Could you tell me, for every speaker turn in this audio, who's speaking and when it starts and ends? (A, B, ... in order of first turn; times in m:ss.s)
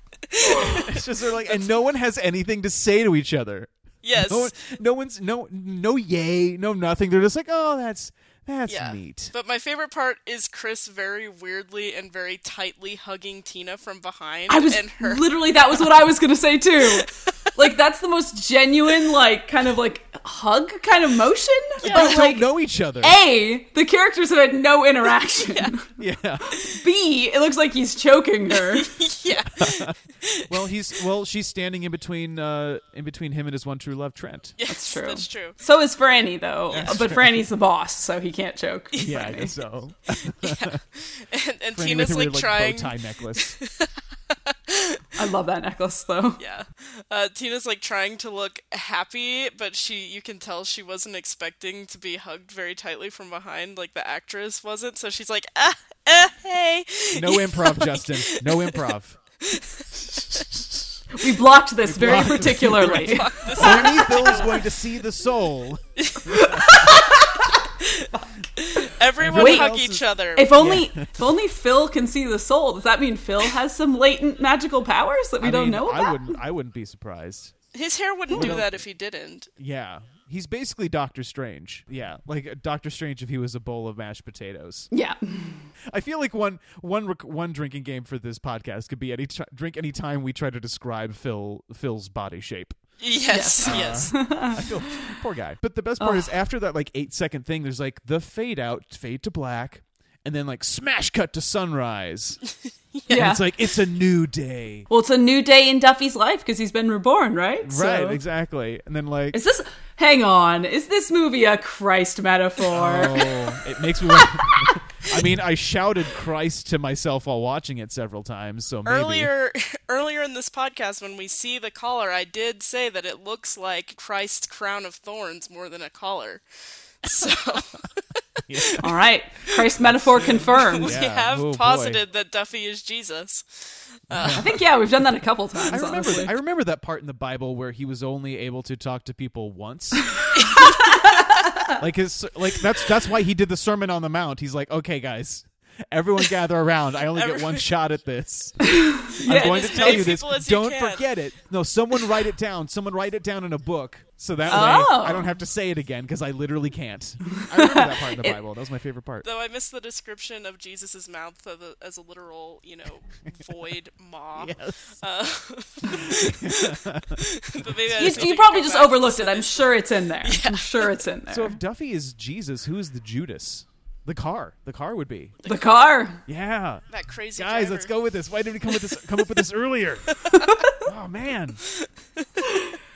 0:00.3-0:00.9 A
0:00.8-0:09.3 B
0:04.0-0:04.5 A
0:08.7-0:15.9 A
0:14.5-0:22.5 C
0:16.8-0:17.2 A
0:21.8-0:22.2 A
0:21.8-0:23.2 B
0:23.0-0:25.8 C
0:26.0-0:26.6 B
0:26.5-0:28.9 C
0:28.7-0:30.6 A
0:29.6-0:29.9 B
0:30.5-0:34.6 B
0:34.6-0:35.6 A
0:34.7-0:39.5 C
0:36.7-0:37.4 B
0:39.0-0:40.8 B
0:40.4-0:45.0 A
0:41.7-0:43.6 B
0:45.2-0:46.4 C
0:46.4-0:58.9 A
0:57.1-0:59.2 B
0:59.4-1:00.4 A
1:01.1-1:04.1 C
1:01.8-1:06.9 B
1:02.2-1:04.6 A
1:06.0-1:07.2 A
1:06.3-1:07.6 C
1:07.8-1:10.7 A
1:09.2-1:11.3 B
1:09.3-1:09.7 C
1:10.3-1:16.3 C
1:15.4-1:17.5 B
1:17.7-1:19.5 A
1:18.3-1:18.6 C
1:18.3-1:18.8 B
1:19.6-1:24.9 B
1:24.9-1:25.7 C
1:25.9-1:32.8 B
1:33.0-1:34.1 A
1:33.3-1:34.7 C
1:33.6-1:42.4 B
1:36.0-1:36.3 C
1:43.1-1:43.4 C
1:43.1-1:44.9 B
1:44.9-1:48.2 C
1:47.6-1:49.4 B
1:49.3-1:53.4 C
1:52.7-1:59.3 B
1:54.0-1:54.8 C
1:58.8-2:06.4 A
2:07.0-2:08.8 A
2:08.4-2:08.9 B
2:08.8-2:11.0 C
2:09.8-2:12.0 B
2:10.5-2:14.5 A
2:14.1-2:14.6 B
2:14.3-2:16.3 C
2:15.7-2:20.2 B
2:20.4-2:21.0 A
2:20.4-2:21.7 C
2:21.8-2:39.2 B
2:27.1-2:27.7 A
2:28.7-2:30.2 C
2:29.2-2:31.0 A
2:34.5-2:34.8 A
2:34.5-2:35.3 C
2:37.4-2:38.4 C
2:39.2-2:51.0 A
2:44.4-2:44.9 B
2:45.9-2:48.3 B
2:47.9-2:51.6 C
2:51.3-2:55.4 B
2:55.4-2:55.8 A
2:55.4-2:56.2 C
2:56.2-2:56.8 B
2:56.9-2:57.9 A
2:57.4-3:00.1 B
3:00.1-3:00.5 A
3:00.4-3:00.8 C
3:00.8-3:01.6 B
3:01.7-3:02.4 A
3:02.4-3:02.8 C